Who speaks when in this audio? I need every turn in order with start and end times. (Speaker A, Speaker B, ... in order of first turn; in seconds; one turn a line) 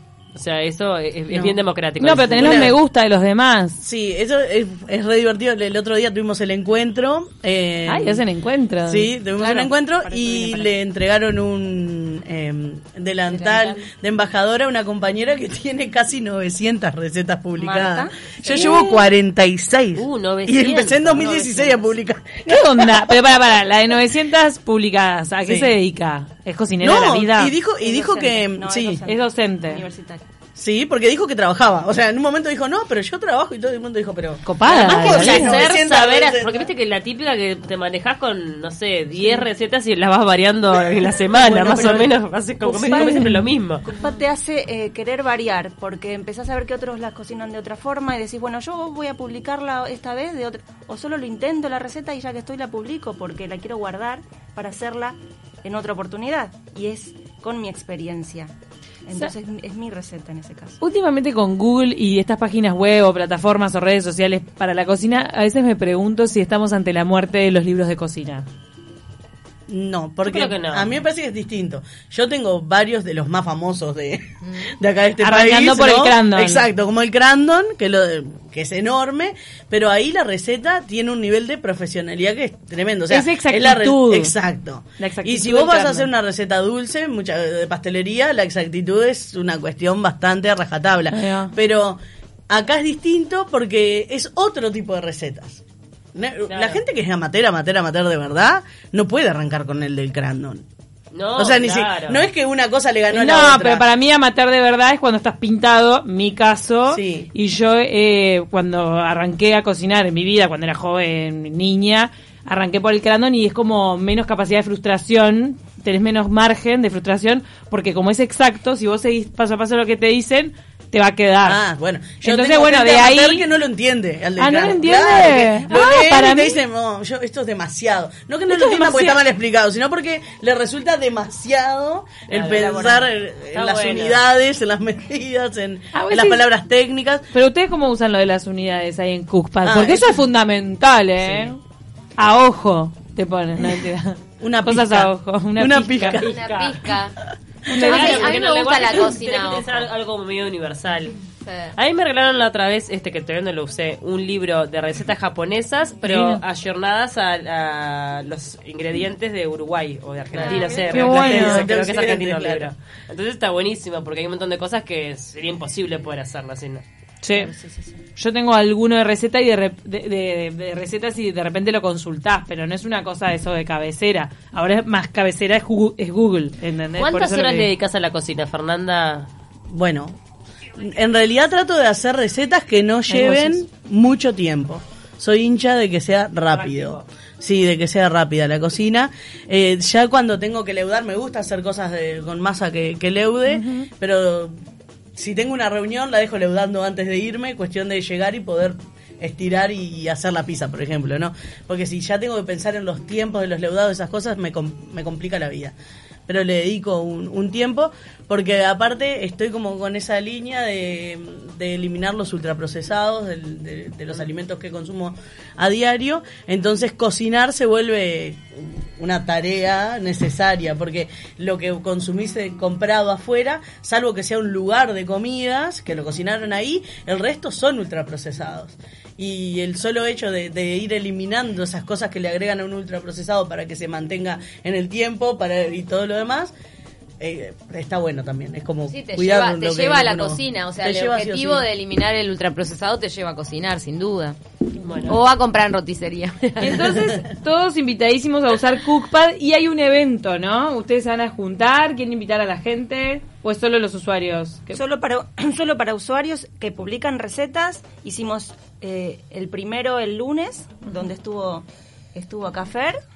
Speaker A: 0.3-2.6
Speaker B: 1.3-1.6
Speaker C: 2.0-3.8
Speaker B: 2.4-2.8
Speaker B: 3.8-8.2
Speaker C: 7.9-9.6
Speaker B: 8.9-23.2
Speaker D: 10.0-10.7
Speaker E: 13.3-13.8
Speaker D: 17.6-18.3
Speaker C: 18.5-19.0
Speaker A: 18.5-18.9
Speaker A: 20.0-21.9
Speaker C: 22.5-27.5
Speaker B: 25.4-25.7
Speaker B: 26.8-29.0
Speaker D: 27.9-30.2
Speaker C: 29.1-29.9
Speaker B: 30.6-36.7
Speaker C: 34.5-35.6
Speaker A: 34.8-43.8
Speaker B: 41.3-42.1
Speaker C: 42.9-43.3
Speaker D: 43.9-58.5
Speaker D: 59.1-60.8
Speaker C: 60.8-68.5
Speaker B: 69.7-92.0
Speaker A: 70.2-70.9
Speaker C: 75.2-76.6
Speaker C: 83.1-84.3
Speaker C: 85.0-86.1
Speaker C: 91.1-91.5
Speaker B: 92.5-95.6
Speaker B: 96.1-100.6
Speaker A: 96.5-96.8
Speaker A: 101.1-102.2
Speaker B: 101.3-103.9
Speaker C: 103.1-121.6
Speaker B: 106.9-107.3
Speaker B: 121.4-137.3
Speaker C: 122.2-123.4
Speaker C: 124.4-126.6
Speaker C: 128.5-129.2
Speaker A: 132.3-134.2
Speaker C: 135.9-136.4
Speaker C: 137.3-141.6
Speaker B: 139.6-140.2
Speaker A: 141.2-141.5
Speaker C: 142.2-146.2
Speaker B: 144.4-146.4
Speaker A: 146.2-146.8
Speaker E: 146.2-147.1
Speaker C: 147.7-148.4
Speaker E: 147.8-149.9
Speaker A: 147.8-151.2
Speaker E: 151.4-151.8
Speaker A: 151.8-166.8
Speaker C: 156.0-156.4
Speaker B: 160.3-162.7
Speaker E: 160.4-160.9
Speaker C: 160.9-161.7
Speaker C: 167.2-167.5
Speaker D: 167.4-168.0
Speaker C: 168.2-177.7
Speaker A: 177.0-179.3
Speaker B: 179.7-180.2
Speaker B: 180.8-194.6
Speaker C: 183.1-183.6
Speaker A: 186.5-187.1
Speaker C: 193.5-193.9
Speaker B: 195.2-205.8
Speaker B: 206.3-236.5
Speaker B: 237.2-241.7
Speaker E: 238.9-244.4
Speaker A: 244.8-245.2
Speaker E: 245.0-246.9
Speaker C: 246.6-254.8
Speaker D: 254.7-262.9